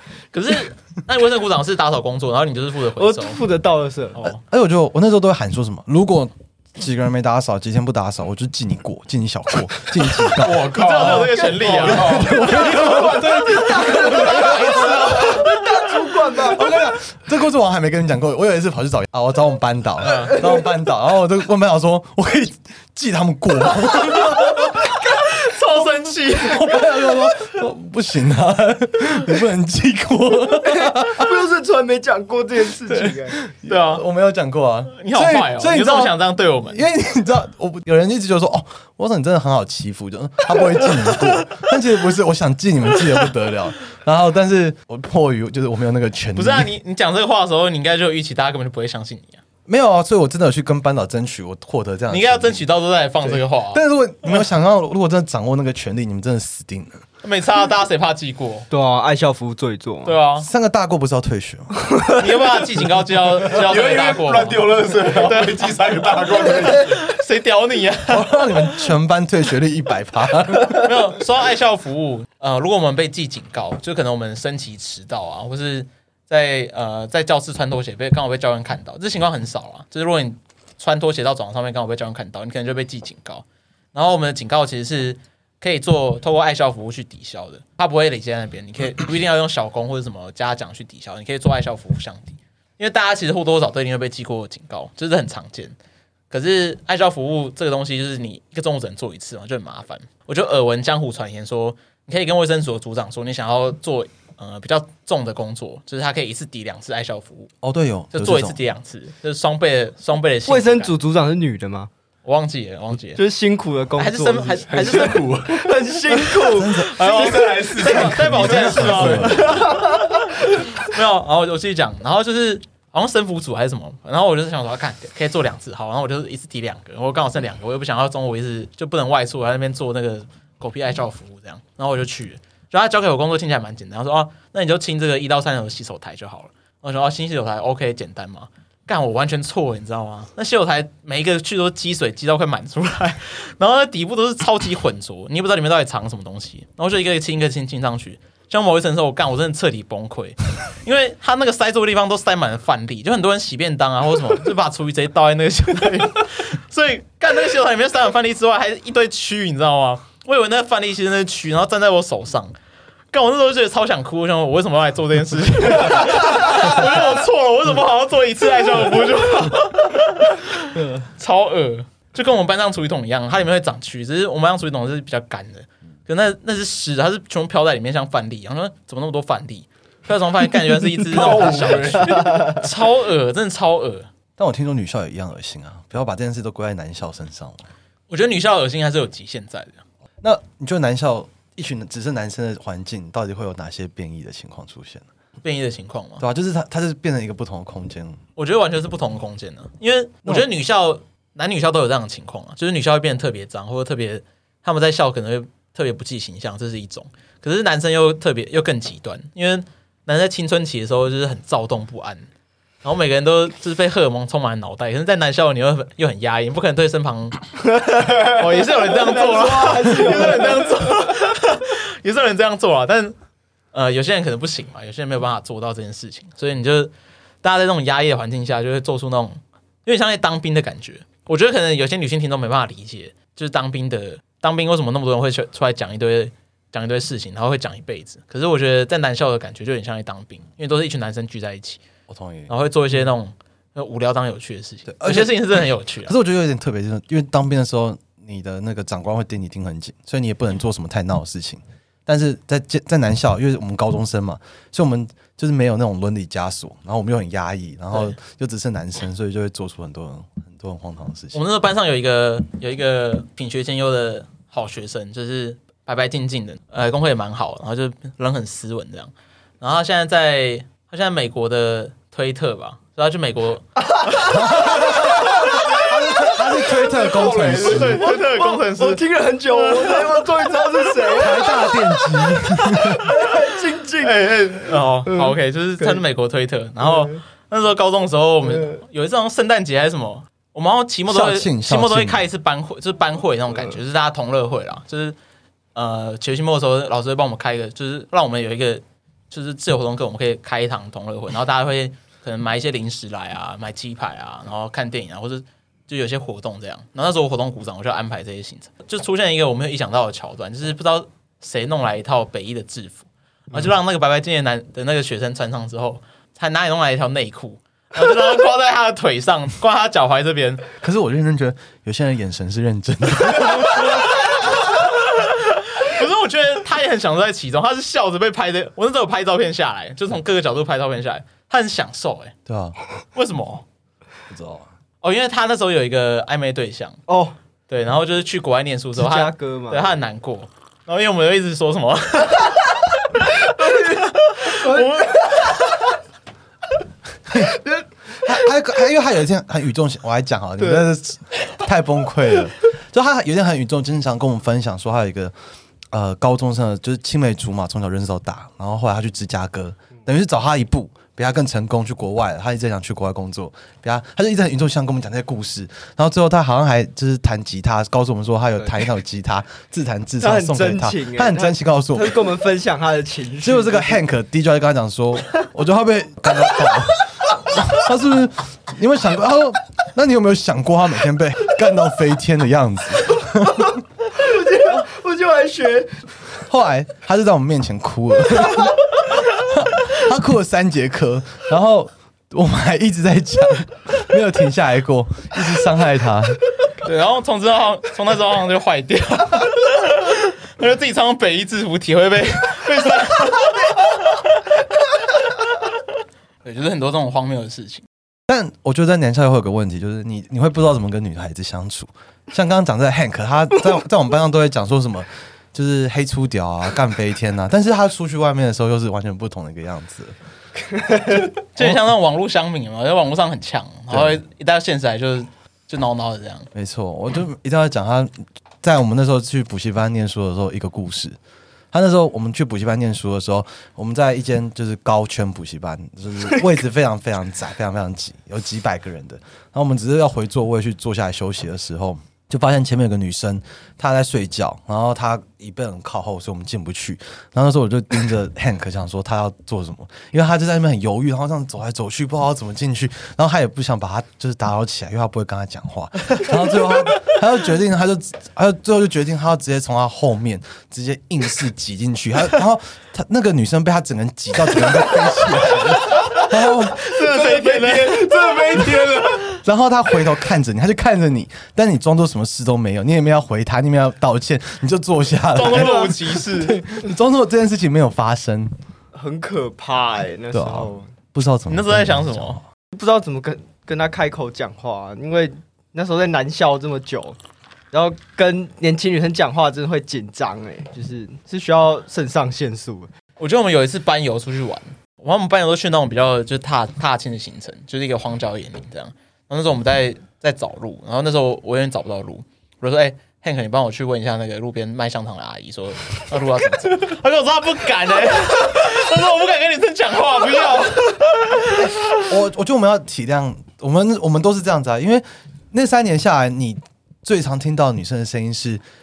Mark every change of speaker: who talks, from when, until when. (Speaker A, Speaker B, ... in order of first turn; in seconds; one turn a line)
Speaker A: 0.3-3.4
Speaker B: 3.0-4.2
Speaker A: 4.2-4.4
Speaker C: 4.2-10.8
Speaker D: 10.3-12.5
Speaker A: 10.4-13.2
Speaker B: 10.9-16.9
Speaker C: 12.0-15.6
Speaker A: 13.9-15.7
Speaker C: 16.4-24.9
Speaker A: 20.0-20.4
Speaker A: 24.2-26.9
Speaker C: 26.3-31.3
Speaker B: 30.6-33.4
Speaker C: 32.9-46.7
Speaker A: 33.6-34.0
Speaker A: 34.9-36.8
Speaker A: 46.4-49.4
Speaker C: 49.7-52.7
Speaker A: 52.1-53.8
Speaker C: 53.2-57.0
Speaker A: 57.2-58.7
Speaker B: 58.7-60.2
Speaker A: 60.0-60.5
Speaker C: 60.4-61.8
Speaker B: 61.9-62.1
Speaker A: 62.2-65.8
Speaker D: 63.4-67.0
Speaker A: 66.6-68.8
Speaker C: 68.1-70.9
Speaker A: 70.7-95.8
Speaker A: 96.3-107.5
Speaker C: 107.6-108.6
Speaker A: 108.1-110.9
Speaker B: 110.5-111.9
Speaker A: 112.2-113.2
Speaker B: 113.2-116.8
Speaker A: 114.0-115.4
Speaker D: 114.7-119.8
Speaker C: 116.5-119.8
Speaker A: 116.8-162.5
Speaker B: 119.5-120.2
Speaker A: 163.1-184.1
Speaker D: 181.1-182.5
Speaker B: 182.2-182.5
Speaker C: 184.4-187.7
Speaker A: 188.1-189.8
Speaker C: 190.2-195.1
Speaker A: 195.4-196.2
Speaker C: 196.2-198.2
Speaker A: 198.4-212.3
Speaker A: 212.8-223.2
Speaker B: 218.1-221.1
Speaker A: 223.7-241.8
Speaker C: 242.1-242.5
Speaker A: 242.5-246.1
Speaker C: 244.9-261.4
Speaker A: 257.9-258.2
Speaker A: 261.3-275.6
Speaker B: 273.8-276.9
Speaker C: 274.3-278.1
Speaker D: 276.9-278.0
Speaker B: 277.5-286.0
Speaker A: 277.5-280.3
Speaker C: 281.2-283.2
Speaker A: 284.0-295.2
Speaker B: 286.8-287.2
Speaker B: 288.4-288.8
Speaker C: 291.1-292.2
Speaker A: 295.8-320.7
Speaker C: 320.8-324.3
Speaker A: 323.5-332.4
Speaker C: 332.5-332.8
Speaker A: 333.1-333.6
Speaker C: 334.3-334.7
Speaker A: 335.0-337.0
Speaker B: 337.1-337.4
Speaker A: 337.7-345.5
Speaker B: 339.0-339.9
Speaker B: 343.4-345.7
Speaker C: 347.3-347.6
Speaker B: 347.3-347.8
Speaker C: 348.2-355.3
Speaker C: 355.9-372.3
Speaker B: 370.2-374.0
Speaker C: 373.4-383.8
Speaker B: 383.6-386.2
Speaker C: 386.5-396.4
Speaker A: 396.7-404.3
Speaker A: 406.4-407.9
Speaker C: 408.3-420.1
Speaker B: 420.8-421.2
Speaker A: 421.5-426.5
Speaker C: 423.9-424.2
Speaker C: 426.5-431.2
Speaker C: 431.7-466.9
Speaker A: 466.1-468.2
Speaker D: 466.9-469.3
Speaker C: 469.3-478.6
Speaker A: 475.4-476.6
Speaker B: 475.4-476.2
Speaker B: 478.9-480.9
Speaker C: 480.3-482.4
Speaker A: 481.5-482.4
Speaker B: 482.7-487.2
Speaker B: 487.7-492.9
Speaker A: 493.2-512.1
Speaker C: 511.6-518.6